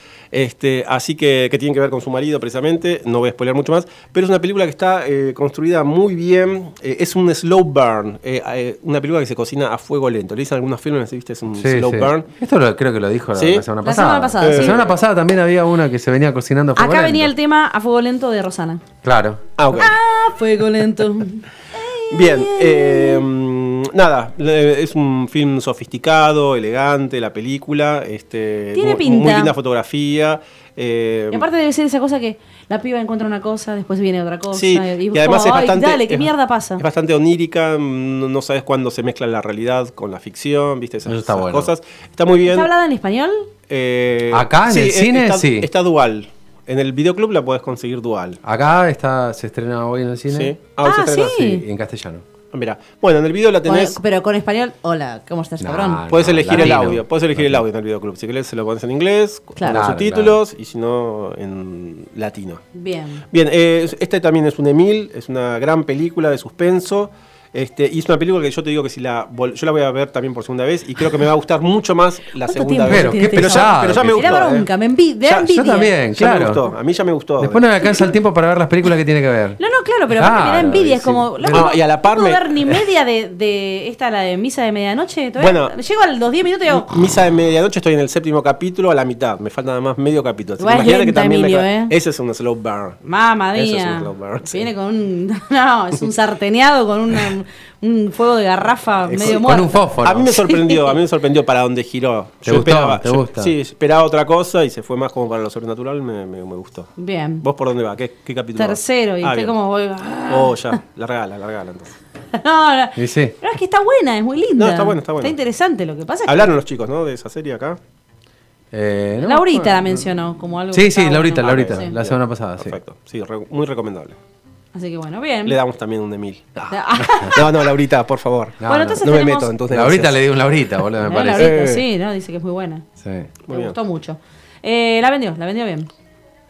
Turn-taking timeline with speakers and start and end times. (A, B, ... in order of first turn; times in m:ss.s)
0:00.3-0:12.3 A
0:11.6-0:17.3 B
0:13.4-0:13.7 A
0:13.8-0:14.8 C
0:14.4-0:15.0 A
0:16.8-0:18.8 C
0:19.0-0:19.4 B
0:19.6-0:20.0 A
0:19.7-0:23.2 C
0:22.1-0:31.5 A
0:28.7-0:29.5 C
0:31.3-0:36.8 C
0:34.5-0:42.7 A
0:41.1-0:41.7 B
0:42.4-0:43.5 C
0:43.7-0:48.4 A
0:44.3-0:45.7 B
0:48.4-0:50.6 B
0:50.3-0:51.4 A
0:50.8-0:51.6 C
0:51.3-0:52.2 B
0:52.5-0:54.0 A
0:53.6-0:56.1 C
0:55.6-0:57.6 B
0:56.1-1:02.6 A
0:59.6-0:59.9 C
0:59.6-1:00.4 B
1:02.7-1:03.2 C
1:03.3-1:14.7 A
1:12.4-1:15.9 C
1:12.9-1:14.3 B
1:15.2-1:17.8 A
1:15.5-1:16.6 B
1:17.4-1:19.6 B
1:17.8-1:18.1 C
1:19.6-1:26.9 C
1:20.1-1:21.7 B
1:20.7-1:22.8 A
1:25.4-1:25.8 A
1:26.7-1:33.0 A
1:30.6-1:32.0 C
1:33.0-1:41.0 C
1:33.5-1:34.7 A
1:39.0-1:49.5 A
1:39.2-1:40.3 B
1:42.4-1:43.5 B
1:47.0-1:47.4 C
1:48.6-1:50.8 C
1:50.3-1:51.9 A
1:52.4-1:56.6 C
1:53.0-1:53.4 B
1:54.6-1:55.4 A
1:56.2-1:57.8 A
1:58.7-2:00.1 B
1:59.2-2:02.0 C
2:00.7-2:02.8 B
2:01.3-2:04.2 A
2:04.7-2:05.6 C
2:05.4-2:10.8 A
2:06.7-2:07.7 C
2:08.6-2:09.1 B
2:08.6-2:09.5 C
2:09.7-2:11.5 B
2:11.0-2:12.8 C
2:11.3-2:11.9 A
2:13.0-2:13.3 B
2:13.5-2:13.8 A
2:13.5-2:15.9 C